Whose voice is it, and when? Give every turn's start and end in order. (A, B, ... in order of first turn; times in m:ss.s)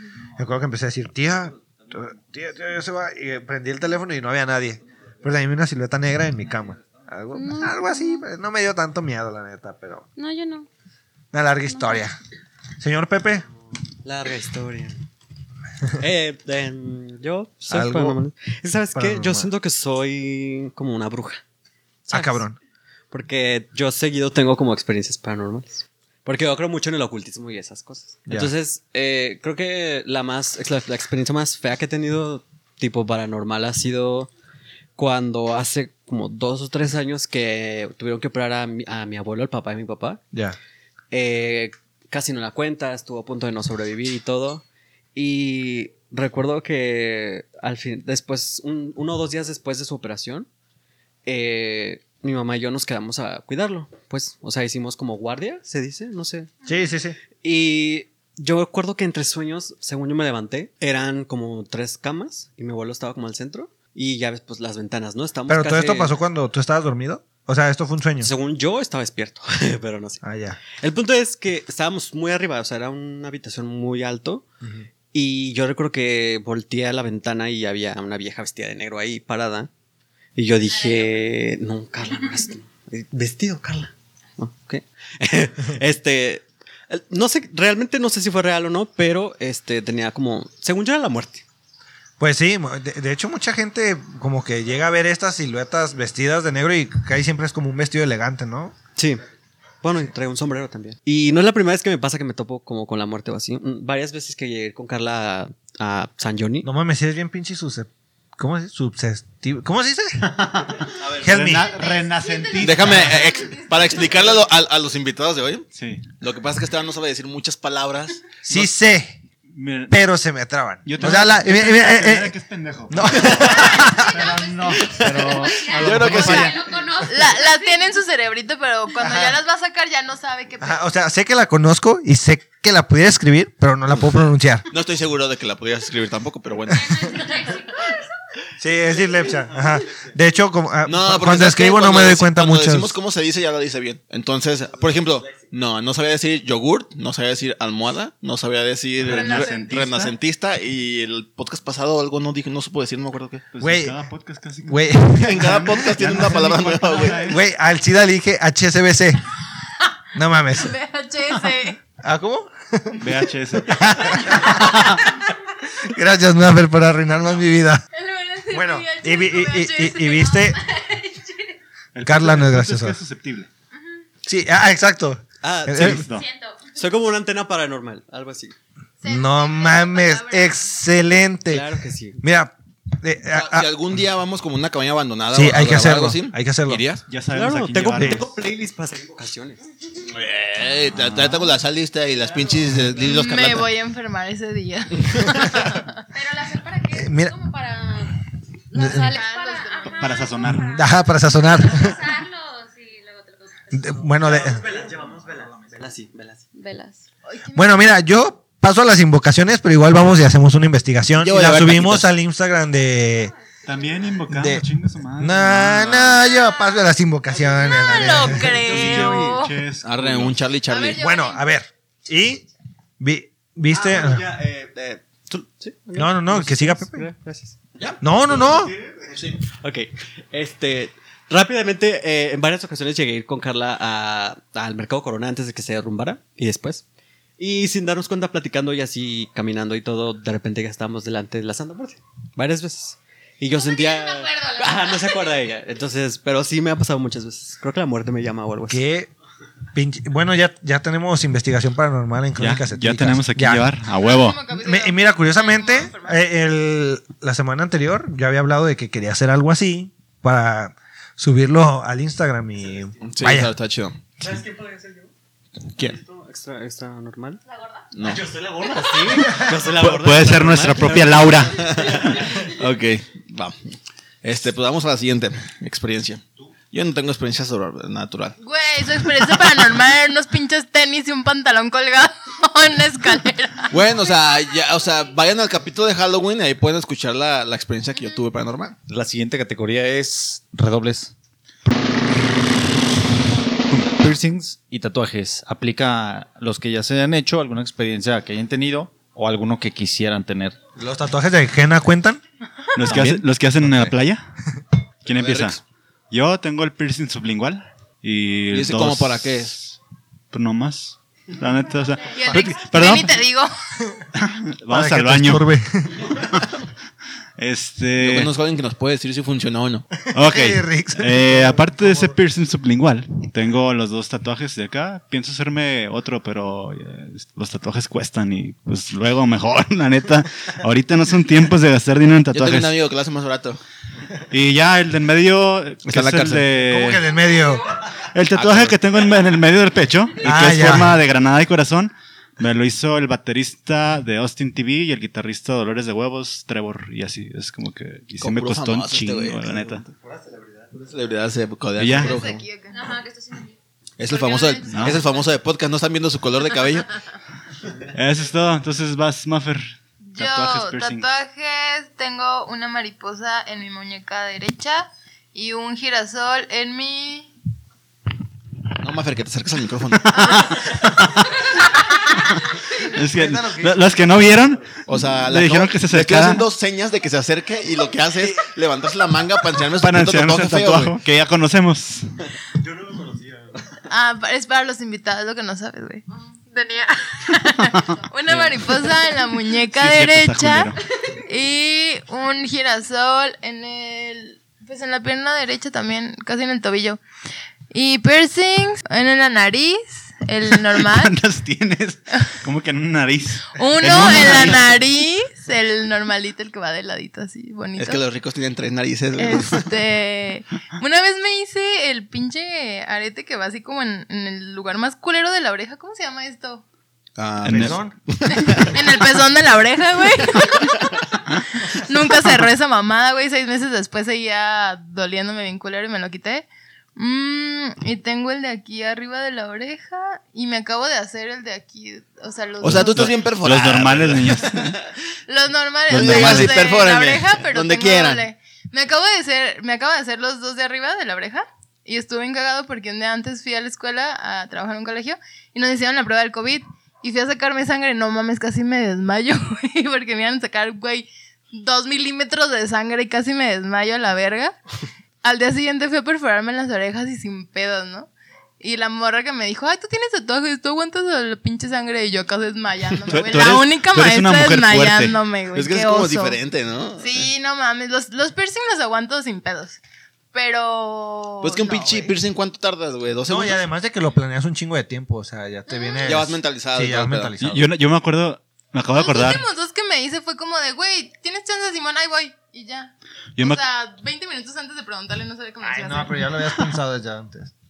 0:00.4-0:10.0 A
0:07.3-0:08.3 B
0:10.2-0:10.7 B
0:11.3-0:12.2 A
0:11.7-0:12.0 B
0:12.8-0:13.4 A
0:14.0-0:15.0 C
0:16.0-0:21.4 C
0:17.7-0:18.2 A
0:19.0-0:19.5 A
0:22.1-0:22.4 C
0:22.1-0:22.6 A
0:23.1-0:34.3 C
0:35.0-0:40.2 C
0:41.1-0:50.5 C
0:51.3-0:56.5 C
0:56.7-0:57.2 A
0:57.4-1:06.2 C
1:05.5-1:08.3 A
1:08.2-1:14.5 C
1:10.2-1:10.6 A
1:15.1-1:19.7 C
1:20.4-1:31.4 C
1:32.2-1:38.7 A
1:39.0-1:39.2 C
1:39.8-1:46.7 C
1:46.6-1:50.3 A
1:50.2-1:53.3 D
1:51.0-1:51.7 A
1:52.2-1:52.5 E
1:52.6-1:55.7 F
1:53.4-1:53.9 E
1:55.8-1:56.1 D
1:56.2-1:58.3 F
1:58.4-1:59.2 A
1:59.5-2:00.0 D
1:59.9-2:02.3 A
2:00.9-2:06.6 D
2:02.9-2:04.1 A
2:03.8-2:08.0 B
2:05.0-2:06.6 F
2:07.0-2:10.8 E
2:10.6-2:14.7 A
2:14.7-2:17.3 F
2:16.7-2:18.0 B
2:18.6-2:23.0 A
2:20.8-2:33.5 F
2:29.0-2:30.2 D
2:29.1-2:29.6 E
2:33.5-2:37.4 D
2:33.6-2:34.0 A
2:34.6-2:35.7 A
2:35.2-2:37.3 F
2:37.2-2:39.2 A
2:40.2-2:40.8 A
2:40.6-2:41.8 E
2:42.0-2:45.0 A
2:43.0-2:45.0 D
2:45.8-2:47.8 A
2:47.9-2:51.3 E
2:48.5-2:50.6 A
2:51.9-2:53.5 D
2:52.0-2:53.0 A
2:54.2-2:56.0 A
2:55.4-2:56.1 C
2:55.7-2:56.2 D
2:56.1-2:56.7 B
2:56.8-2:58.6 C
2:59.0-3:00.6 E
2:59.1-3:01.7 A
3:01.5-3:02.2 C
3:02.2-3:03.7 A
3:03.3-3:07.0 F
3:05.3-3:06.8 A
3:07.1-3:08.3 D
3:07.3-3:09.6 C
3:10.0-3:13.7 F
3:10.9-3:11.5 D
3:13.0-3:15.9 E
3:16.1-3:20.9 B
3:16.9-3:17.4 A
3:18.8-3:19.2 A
3:19.1-3:20.3 E
3:20.0-3:20.8 D
3:20.6-3:22.0 A
3:21.4-3:23.9 B
3:23.7-3:24.7 A
3:24.2-3:26.4 C
3:26.6-3:27.0 B
3:27.2-3:27.8 E
3:27.5-3:33.3 A
3:31.2-3:32.1 F
3:33.7-3:36.2 D
3:34.3-3:34.6 A
3:35.2-3:38.8 A
3:37.5-3:39.6 E
3:38.2-3:40.4 D
3:39.8-3:41.0 F
3:40.7-3:41.5 E
3:41.0-3:42.4 A
3:43.0-3:44.3 A
3:43.7-3:56.8 C
3:45.9-3:47.1 A
3:48.0-3:48.7 A
3:57.4-4:08.8 C
4:03.6-4:05.2 B
4:08.7-4:09.1 A
4:09.8-4:13.7 A
4:12.4-4:14.4 D
4:14.0-4:16.2 E
4:14.6-4:23.5 A
4:23.1-4:24.1 F
4:24.2-4:25.1 C
4:25.7-4:27.4 C
4:27.5-4:27.8 B
4:27.9-4:28.3 F
4:28.0-4:32.4 C
4:29.6-4:31.7 D
4:31.6-4:38.4 F
4:38.4-4:43.7 E
4:39.0-4:39.6 F
4:43.7-4:48.8 F
4:48.9-4:51.1 G
4:53.8-5:00.6 G
5:00.8-5:02.2 A
5:02.8-5:04.3 D
5:02.9-5:03.9 G
5:05.0-5:09.8 D
5:05.1-5:05.6 F
5:08.5-5:09.6 F
5:10.3-5:13.2 D
5:12.1-5:13.5 E
5:14.2-5:15.5 D
5:14.7-5:16.1 A
5:17.4-5:18.3 D
5:18.0-5:19.9 F
5:20.1-5:22.2 A
5:20.1-5:32.8 D
5:32.3-5:33.6 F
5:34.3-5:37.0 D
5:35.9-5:36.4 F
5:36.6-5:37.6 A
5:38.1-5:49.8 D
5:38.3-5:38.8 F
5:40.2-5:41.0 A
5:48.2-5:49.9 F
5:50.1-5:50.7 C
5:50.8-5:52.4 F
5:51.8-5:52.2 D
5:52.0-5:52.9 E
5:52.8-5:53.5 B
5:54.0-5:56.9 F
5:54.0-5:55.3 E
5:54.7-5:55.0 D
5:57.9-6:01.1 D
6:00.1-6:07.3 E
6:08.8-6:10.5 F
6:10.2-6:10.6 E
6:10.3-6:11.4 D
6:12.8-6:16.4 D
6:13.0-6:13.9 A
6:14.9-6:21.0 F
6:19.8-6:22.2 D
6:22.8-6:23.6 C
6:23.9-6:37.0 E
6:28.3-6:28.7 D
6:29.7-6:30.8 D
6:37.7-6:41.1 E
6:40.7-6:44.8 D
6:43.5-6:48.0 E
6:43.9-6:44.2 F
6:47.8-6:49.7 F
6:49.2-6:56.6 E
6:57.2-6:59.1 F
6:57.4-6:58.0 A
6:57.4-6:57.8 D
6:58.5-7:01.0 E
7:01.6-7:13.2 E
7:12.6-7:14.8 F
7:12.6-7:14.8 D
7:15.3-7:34.6 E
7:15.9-7:16.7 D
7:15.9-7:18.2 F
7:35.2-7:46.4 E
7:43.1-7:43.5 F
7:43.1-7:45.2 D
7:45.5-7:47.3 F
7:47.0-7:49.8 E
7:50.3-7:52.1 E
7:51.4-7:53.6 F
7:53.3-7:57.7 A
7:55.7-7:56.0 E
7:56.0-7:57.3 F
7:57.4-7:59.5 D
7:58.9-8:06.6 E
8:03.4-8:03.6 D
8:05.6-8:07.5 A